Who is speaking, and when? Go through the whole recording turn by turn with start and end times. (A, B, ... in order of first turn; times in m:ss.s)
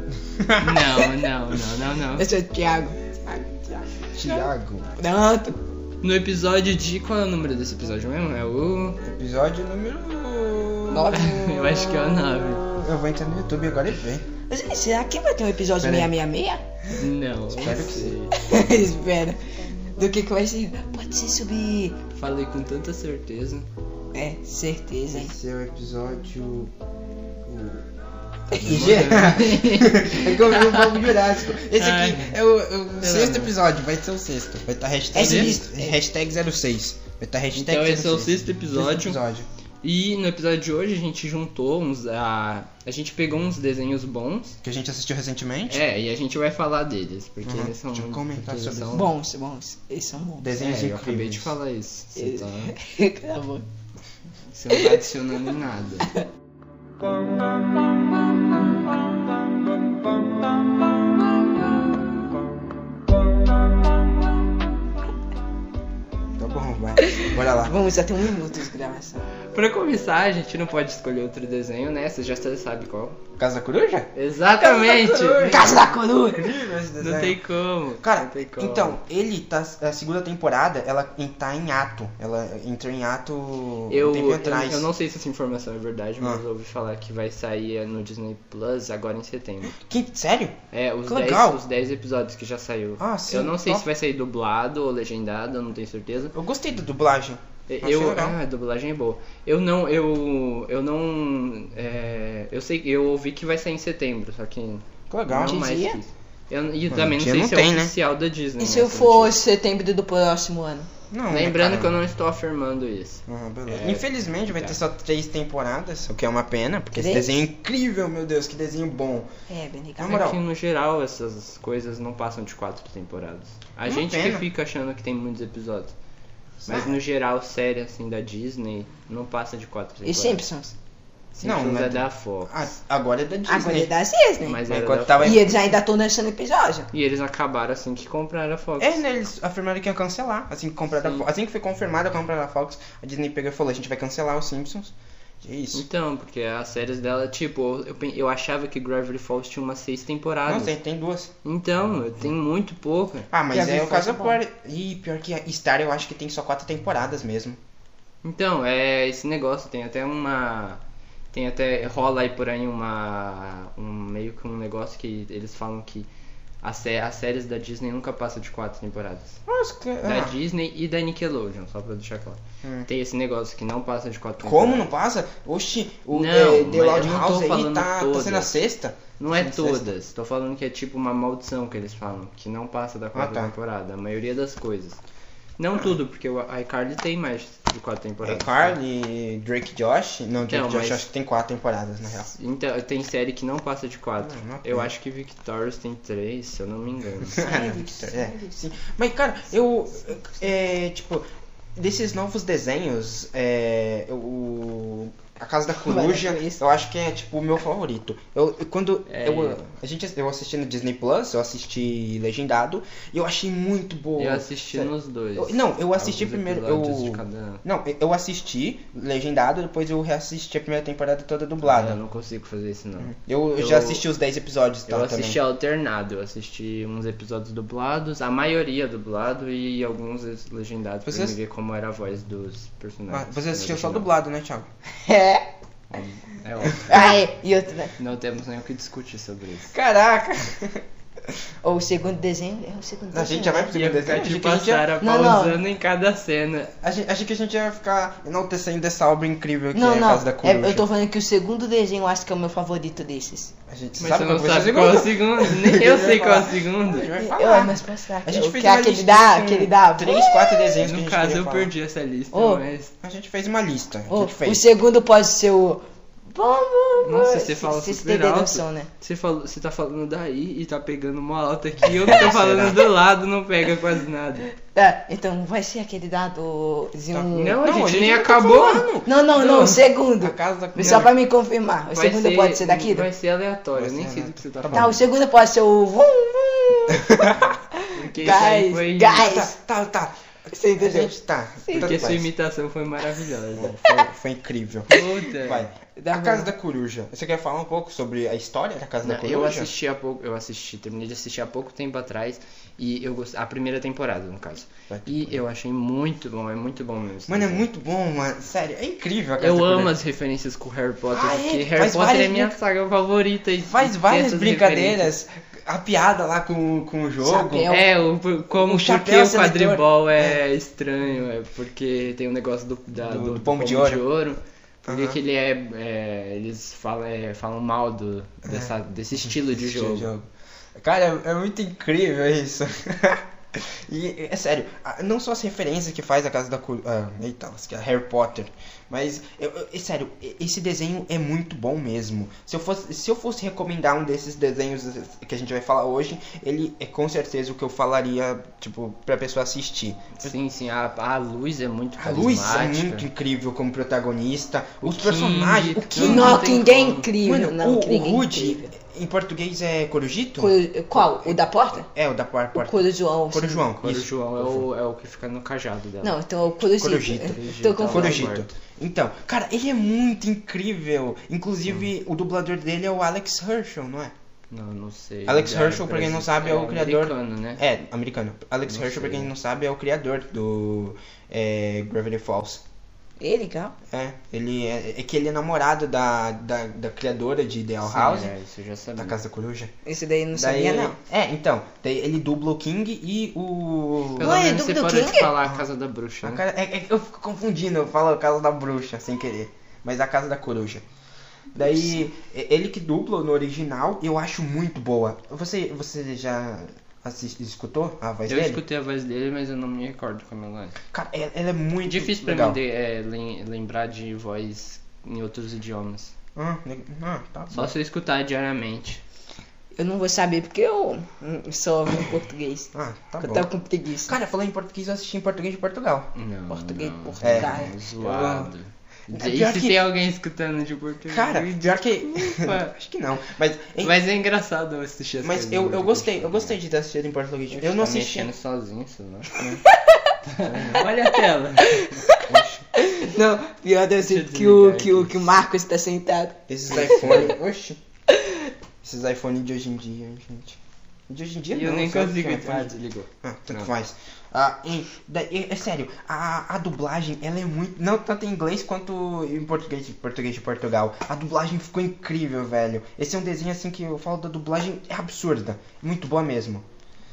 0:00.2-0:01.1 A
0:00.6-0:02.3 B
0:02.2-0:05.6 C
0:04.1-0:04.9 A
0:06.0-0:09.0 B
0:09.0-0:11.2 A
0:10.9-0:12.0 C
0:11.1-0:12.6 B
0:12.7-0:14.2 A
0:14.5-0:16.6 C
0:15.8-0:16.1 A
0:16.9-0:18.2 A
0:17.0-0:18.3 B
0:18.3-0:19.4 C
0:19.9-0:22.0 C
0:22.1-0:23.6 B
0:24.1-0:25.3 C
0:25.1-0:26.7 A
0:27.5-0:27.8 A
0:28.5-0:32.4 B
0:28.5-0:39.5 A
0:33.0-0:33.5 B
0:35.1-0:36.0 C
0:35.1-0:35.6 B
0:37.5-0:39.2 B
0:39.8-0:44.6 B
0:44.6-0:45.8 A
0:45.7-0:49.1 B
0:47.4-0:49.1 A
0:48.9-0:50.5 C
0:50.4-0:51.5 A
0:50.6-0:52.8 B
0:52.2-0:53.6 C
0:54.5-0:56.1 B
0:54.7-0:55.0 C
1:06.4-1:07.7 A
1:07.0-1:09.2 C
1:09.5-1:13.2 B
1:13.4-1:14.1 A
1:14.1-1:15.9 B
1:14.8-1:16.6 C
1:14.8-1:17.4 A
1:17.0-1:19.0 B
1:18.0-1:24.9 A
1:23.9-1:29.8 B
1:29.7-1:31.6 A
1:30.7-1:36.3 B
1:33.0-1:33.8 A
1:36.3-1:38.4 A
1:37.7-1:49.3 B
1:45.1-1:45.8 A
1:45.5-1:46.0 C
1:46.9-1:47.9 A
1:48.6-1:50.9 C
1:51.1-1:52.0 A
1:51.3-1:54.8 B
1:53.3-1:59.3 A
1:56.9-1:57.3 C
1:59.5-2:00.2 C
2:00.0-2:00.4 A
2:00.0-2:05.9 B
2:03.8-2:04.4 A
2:06.6-2:07.0 A
2:06.7-2:10.4 B
2:10.0-2:10.7 C
2:11.3-2:12.7 B
2:11.4-2:13.9 A
2:13.5-2:14.6 C
2:14.4-2:15.5 B
2:14.6-2:15.6 A
2:15.2-2:16.9 C
2:16.9-2:19.0 B
2:18.8-2:25.8 A
2:25.7-2:30.8 B
2:30.4-2:31.3 A
2:31.4-2:33.3 B
2:33.3-2:37.6 A
2:33.5-2:34.4 C
2:38.2-2:40.8 B
2:41.3-2:46.1 B
2:46.6-2:49.4 B
2:49.5-2:50.4 A
2:50.0-2:54.9 B
2:52.6-2:52.9 A
2:54.4-2:59.9 A
2:56.1-2:58.5 B
2:59.2-3:05.0 B
3:03.1-3:03.5 A
3:05.6-3:08.8 B
3:05.7-3:06.0 A
3:08.2-3:12.3 A
3:10.5-3:11.0 B
3:12.3-3:17.4 B
3:14.2-3:14.9 A
3:17.3-3:21.2 A
3:17.4-3:18.5 C
3:21.8-3:42.0 A
3:25.8-3:26.6 C
3:29.1-3:29.6 B
3:34.2-3:37.6 B
3:41.6-3:44.0 B
3:43.0-3:45.4 A
3:44.9-3:54.1 B
3:51.0-3:51.3 A
3:53.1-3:54.7 A
3:55.0-3:55.4 C
3:55.9-3:57.1 B
3:56.7-3:57.2 A
3:56.8-3:57.9 C
3:58.0-3:59.7 B
3:59.7-4:01.4 A
4:01.6-4:03.7 C
4:03.1-4:04.9 A
4:03.7-4:06.7 B
4:05.0-4:05.6 C
4:06.8-4:10.8 A
4:09.7-4:13.5 C
4:13.7-4:21.7 A
4:14.0-4:17.1 B
4:17.2-4:20.7 C
4:20.8-4:22.9 B
4:22.3-4:22.6 C
4:23.0-4:24.6 A
4:24.1-4:28.9 C
4:27.0-4:34.5 B
4:31.8-4:32.9 A
4:34.6-4:37.6 C
4:37.1-4:41.1 A
4:37.3-4:38.9 B
4:39.0-4:43.1 C
4:40.8-4:41.1 B
4:41.9-4:45.0 B
4:43.7-4:45.0 A
4:44.7-4:49.5 C
4:46.9-4:47.5 A
4:47.9-4:49.4 B
4:49.1-4:52.2 A
4:50.5-4:52.1 C
4:51.7-4:53.9 B
4:53.5-4:59.7 A
4:54.9-4:55.7 B
4:56.0-4:56.5 C
4:59.0-5:07.6 B
5:04.9-5:05.4 A
5:07.3-5:09.9 A
5:09.4-5:15.1 B
5:11.1-5:12.6 A
5:13.6-5:17.8 A
5:17.2-5:17.9 C
5:17.6-5:30.1 B
5:18.6-5:20.4 A
5:23.0-5:24.0 A
5:24.9-5:25.2 A
5:28.4-5:50.3 A
5:50.2-5:53.0 B
5:52.0-5:56.4 A
5:54.8-5:57.1 B
5:56.0-5:58.7 C
5:57.2-6:04.7 A
6:00.4-6:01.9 C
6:02.5-6:03.7 C
6:03.8-6:06.2 B
6:06.0-6:08.3 C
6:06.8-6:14.1 A
6:07.2-6:08.5 B
6:14.5-6:17.6 B
6:15.2-6:22.6 A
6:18.7-6:19.3 B
6:23.2-6:23.7 C
6:23.9-6:28.3 A
6:27.8-6:29.2 B
6:29.0-6:29.7 A
6:29.8-6:31.0 C
6:30.3-6:34.4 A
6:34.2-6:36.4 B
6:34.2-6:35.3 C
6:36.2-6:40.8 A
6:41.5-6:48.6 A
6:41.6-6:42.0 B
6:48.3-6:50.8 B
6:50.9-6:52.6 A
6:51.8-6:56.1 B
6:56.4-6:57.7 A
6:57.5-6:59.0 B
6:59.7-7:04.1 C
7:02.7-7:03.5 A
7:04.0-7:06.1 A
7:06.1-7:12.7 B
7:06.5-7:07.7 C
7:07.2-7:08.5 A
7:09.1-7:09.8 A
7:11.1-7:13.9 A
7:13.8-7:16.6 B
7:15.2-7:18.3 A
7:17.5-7:19.3 B
7:19.6-7:20.1 C
7:20.2-7:22.4 B
7:20.5-7:20.8 A
7:20.7-7:22.2 C
7:22.3-7:22.6 A
7:22.8-7:26.4 C
7:24.0-7:25.4 B
7:26.5-7:27.8 A
7:26.7-7:27.6 B
7:27.0-7:27.3 C
7:28.1-7:28.5 C
7:28.8-7:46.6 A
7:31.5-7:33.7 B